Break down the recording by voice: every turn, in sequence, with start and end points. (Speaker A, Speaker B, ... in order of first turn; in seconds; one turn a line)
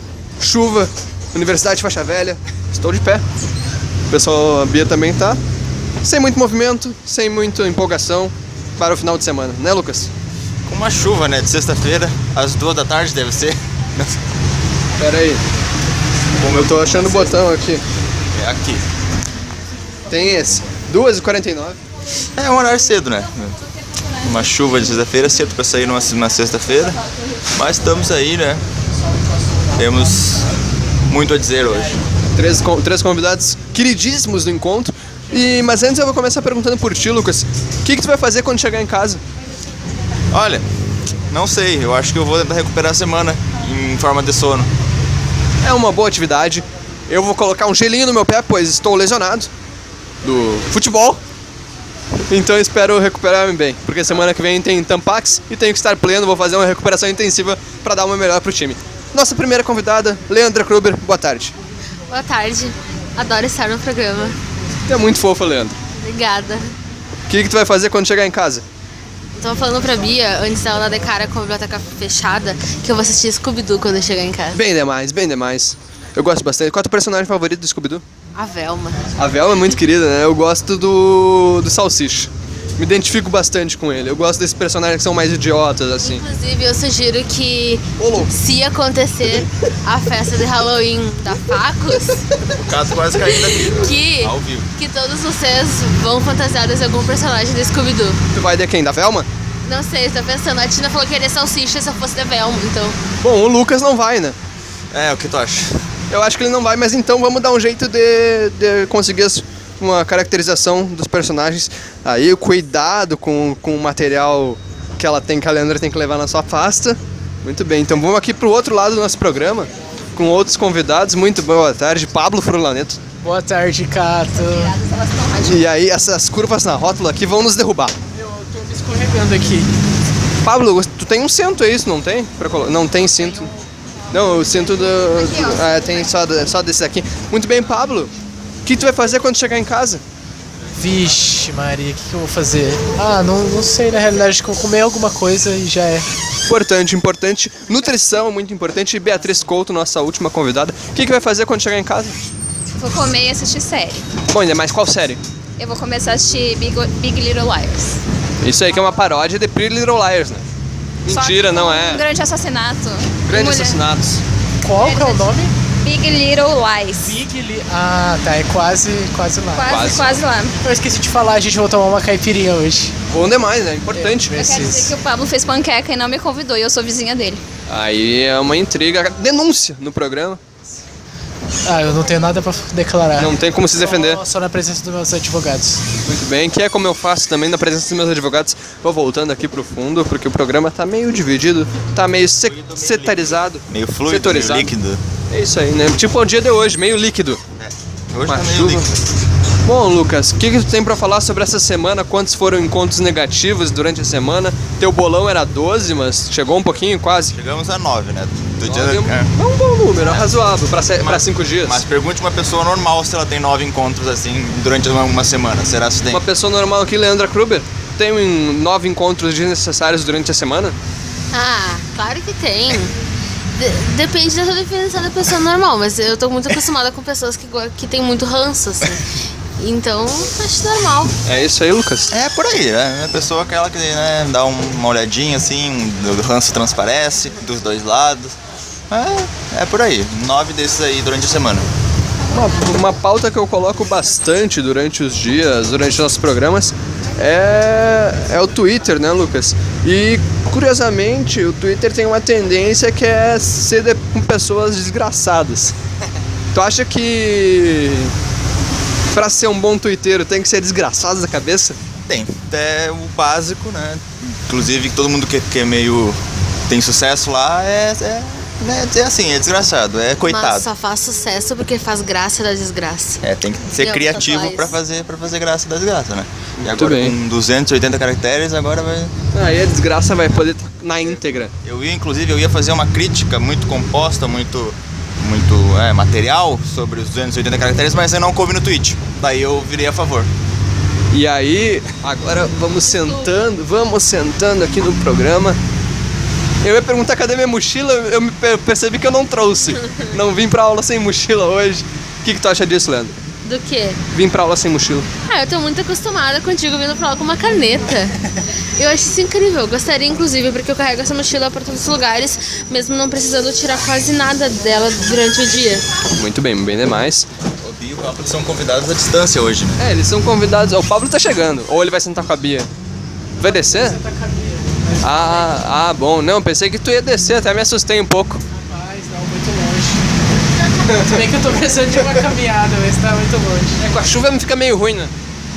Speaker A: 0.4-3.2
Speaker A: 4.1-5.4
Speaker A: 6.0-10.1
Speaker B: 10.7-14.2
Speaker A: 15.0-15.4
Speaker B: 16.4-17.4
Speaker A: 16.4-17.8
Speaker B: 18.3-18.8
Speaker A: 20.1-21.8
Speaker B: 22.3-23.6
Speaker C: 22.9-24.5
Speaker B: 24.2-27.0
Speaker C: 26.9-27.5
Speaker B: 27.5-28.6
Speaker B: 29.7-30.4
Speaker B: 31.1-32.0
Speaker A: 32.3-39.2
Speaker B: 40.3-40.6
Speaker B: 41.3-44.7
Speaker A: 45.6-49.5
Speaker A: 50.2-51.2
Speaker A: 52.3-61.5
Speaker D: 62.1-64.4
Speaker A: 64.9-65.8
Speaker D: 66.0-66.7
Speaker A: 67.3-68.6
Speaker D: 69.4-74.6
Speaker A: 74.5-78.0
Speaker D: 78.3-79.1
Speaker A: 79.2-86.2
Speaker D: 86.0-92.2
Speaker A: 88.0-88.3
Speaker B: 92.5-94.7
Speaker D: 93.1-98.2
Speaker A: 98.3-99.3
Speaker D: 99.6-103.0
Speaker A: 103.2-104.3
Speaker B: 104.9-105.8
Speaker A: 106.1-123.0
Speaker E: 123.2-124.8
Speaker C: 124.3-125.6
Speaker A: 125.3-128.0
Speaker E: 128.1-129.7
Speaker A: 130.4-133.5
Speaker A: 134.1-138.1
Speaker C: 134.3-136.0
Speaker A: 138.6-140.0
Speaker E: 140.8-146.1
Speaker A: 146.5-152.2
Speaker C: 152.8-154.0
Speaker A: 154.3-155.2
Speaker C: 155.6-158.0
Speaker A: 158.4-160.4
Speaker A: 161.0-162.0
Speaker C: 161.1-163.8
Speaker A: 163.3-164.2
Speaker E: 164.6-165.5
Speaker C: 164.7-167.2
Speaker E: 167.0-169.9
Speaker C: 169.5-170.6
Speaker A: 169.6-170.2
Speaker E: 170.6-172.9
Speaker A: 173.1-174.9
Speaker E: 173.9-174.6
Speaker C: 174.3-177.4
Speaker A: 177.7-180.4
Speaker E: 181.6-185.8
Speaker A: 183.2-184.2
Speaker A: 186.0-194.7
Speaker B: 192.4-195.0
Speaker A: 195.3-197.4
Speaker B: 197.6-199.0
Speaker A: 198.2-198.9
Speaker A: 199.6-207.3
Speaker B: 207.3-209.3
Speaker A: 208.6-211.8
Speaker B: 210.0-216.2
Speaker A: 216.1-220.8
Speaker D: 221.3-222.9
Speaker D: 223.5-229.0
Speaker D: 229.6-231.2
Speaker A: 231.2-232.1
Speaker B: 232.1-238.3
Speaker B: 238.9-241.7
Speaker A: 242.3-255.7
Speaker A: 256.5-258.1
Speaker A: 259.1-261.8
Speaker B: 262.1-270.7
Speaker D: 270.2-273.2
Speaker B: 273.2-279.1
Speaker D: 273.8-274.8
Speaker A: 276.6-277.1
Speaker A: 279.3-281.5
Speaker B: 281.6-290.3
Speaker A: 291.1-295.6
Speaker D: 292.9-293.2
Speaker A: 296.6-303.1
Speaker D: 303.4-304.0
Speaker A: 304.1-305.1
Speaker D: 305.3-308.2
Speaker D: 308.8-315.9
Speaker A: 316.1-317.3
Speaker B: 317.6-319.8
Speaker A: 319.8-322.7
Speaker E: 323.4-325.6
Speaker A: 323.4-324.0
Speaker A: 325.0-328.4
Speaker E: 328.6-330.0
Speaker A: 330.9-331.2
Speaker E: 330.9-333.8
Speaker A: 333.8-335.1